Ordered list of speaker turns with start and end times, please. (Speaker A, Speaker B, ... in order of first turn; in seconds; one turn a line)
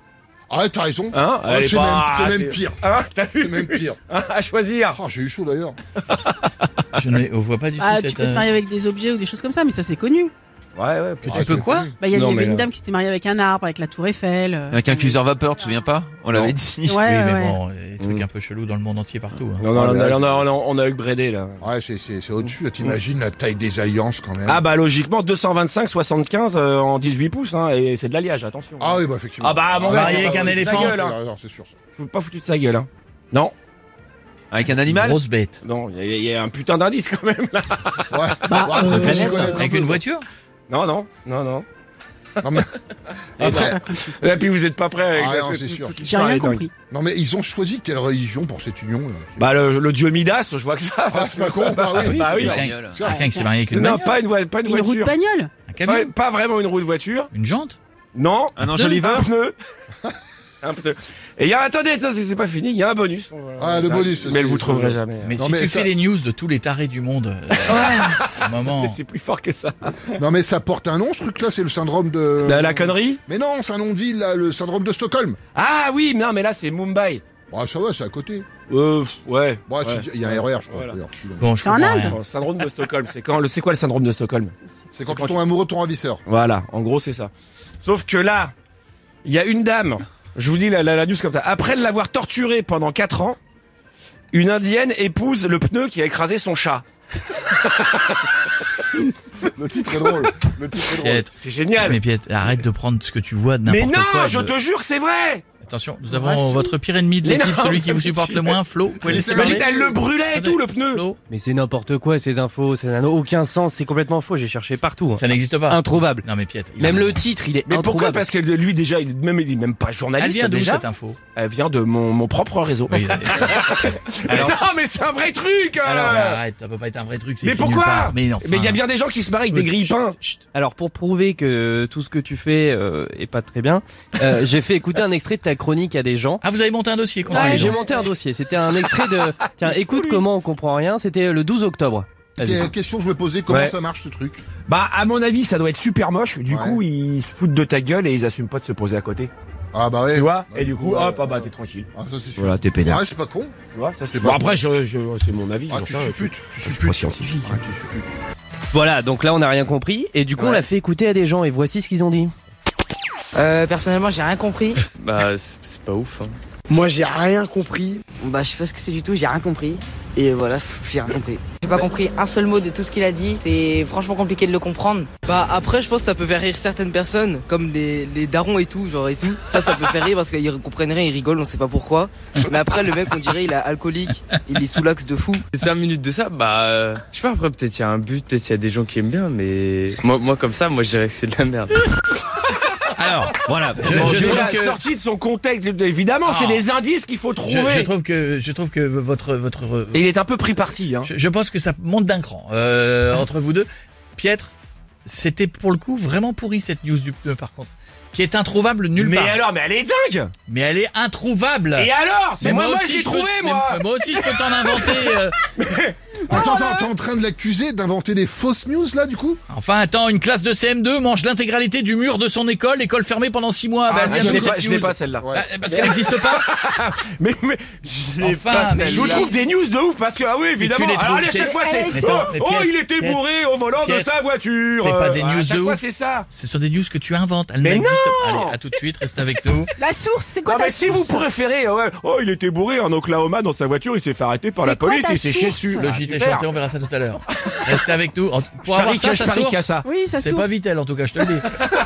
Speaker A: 0.5-2.8
Speaker B: 1.1-5.0
Speaker A: 3.4-4.0
Speaker A: 4.9-5.8
Speaker B: 6.0-6.5
Speaker C: 6.9-8.5
Speaker D: 7.8-10.3
Speaker B: 10.8-12.7
Speaker C: 11.2-11.9
Speaker A: 11.3-11.9
Speaker D: 12.0-15.1
Speaker E: 14.7-17.0
Speaker F: 14.8-15.2
Speaker B: 16.3-16.6
Speaker D: 16.9-17.5
Speaker C: 17.0-19.6
Speaker B: 19.6-21.6
Speaker A: 19.6-20.5
Speaker A: 21.6-24.6
Speaker B: 22.4-23.0
Speaker B: 24.4-31.1
Speaker A: 28.8-31.7
Speaker C: 29.8-31.0
Speaker B: 31.9-33.5
Speaker E: 34.5-35.2
Speaker C: 34.9-35.6
Speaker B: 35.6-39.9
Speaker A: 38.1-39.7
Speaker F: 38.5-39.6
Speaker C: 39.5-40.2
Speaker B: 40.7-41.6
Speaker A: 42.4-42.7
Speaker A: 43.4-43.8
Speaker B: 43.4-46.6
Speaker A: 45.1-46.0
Speaker D: 46.1-46.7
Speaker A: 46.9-49.4
Speaker B: 49.4-52.7
Speaker A: 51.1-53.3
Speaker C: 51.9-54.2
Speaker E: 52.4-53.1
Speaker B: 53.7-55.1
Speaker D: 54.7-55.5
Speaker C: 55.7-56.1
Speaker B: 55.9-57.3
Speaker C: 57.3-57.8
Speaker B: 58.1-59.5
Speaker E: 58.6-59.3
Speaker C: 58.7-59.1
Speaker B: 60.6-65.9
Speaker A: 63.6-65.9
Speaker C: 65.2-69.0
Speaker B: 67.7-70.1
Speaker A: 70.2-75.4
Speaker B: 72.4-73.2
Speaker B: 75.5-77.2
Speaker A: 77.5-78.5
Speaker B: 78.7-81.0
Speaker A: 79.7-81.5
Speaker C: 81.4-82.2
Speaker F: 81.6-82.1
Speaker D: 81.7-81.9
Speaker B: 82.0-85.4
Speaker A: 84.9-86.2
Speaker B: 86.2-88.5
Speaker B: 89.2-93.4
Speaker B: 94.3-96.8
Speaker B: 97.5-98.5
Speaker A: 99.5-101.3
Speaker B: 100.0-100.3
Speaker C: 101.0-104.5
Speaker B: 101.3-102.6
Speaker B: 103.7-105.4
Speaker C: 105.6-109.6
Speaker F: 106.1-106.6
Speaker B: 107.2-111.0
Speaker A: 109.0-110.0
Speaker C: 110.3-111.2
Speaker F: 111.3-118.2
Speaker C: 115.1-117.2
Speaker B: 117.7-126.4
Speaker C: 120.2-121.2
Speaker C: 122.9-123.8
Speaker F: 124.3-124.6
Speaker C: 125.8-128.8
Speaker B: 127.4-130.2
Speaker C: 129.5-130.4
Speaker F: 130.5-136.4
Speaker C: 136.4-137.8
Speaker F: 137.3-142.7
Speaker B: 139.6-140.2
Speaker A: 142.4-144.4
Speaker B: 143.5-143.8
Speaker B: 144.7-149.3
Speaker A: 146.5-146.8
Speaker A: 149.7-153.5
Speaker B: 150.1-153.0
Speaker B: 153.7-157.6
Speaker A: 154.1-154.6
Speaker A: 155.7-158.1
Speaker E: 156.7-157.1
Speaker F: 158.7-162.3
Speaker G: 160.4-160.7
Speaker G: 163.3-164.8
Speaker H: 165.0-166.4
Speaker G: 166.7-185.5
Speaker H: 185.5-191.8
Speaker C: 193.0-194.8
Speaker F: 193.0-194.4
Speaker B: 193.9-197.9
Speaker C: 196.3-196.6
Speaker C: 197.4-200.1
Speaker B: 199.9-201.1
Speaker C: 201.0-204.5
Speaker C: 205.1-209.4
Speaker B: 208.9-210.3
Speaker C: 210.5-215.3
Speaker B: 211.8-216.5
Speaker A: 216.3-219.4
Speaker C: 219.5-226.4
Speaker B: 223.9-236.3
Speaker A: 224.0-224.5
Speaker A: 225.2-225.5
Speaker C: 228.2-229.3
Speaker E: 228.2-229.3
Speaker C: 230.6-234.1
Speaker C: 234.8-239.7
Speaker B: 237.6-238.6
Speaker D: 239.8-240.6
Speaker B: 240.4-246.5
Speaker F: 240.7-241.0
Speaker F: 244.6-245.7
Speaker D: 245.0-245.8
Speaker C: 245.7-251.6
Speaker B: 248.7-249.9
Speaker D: 249.9-250.5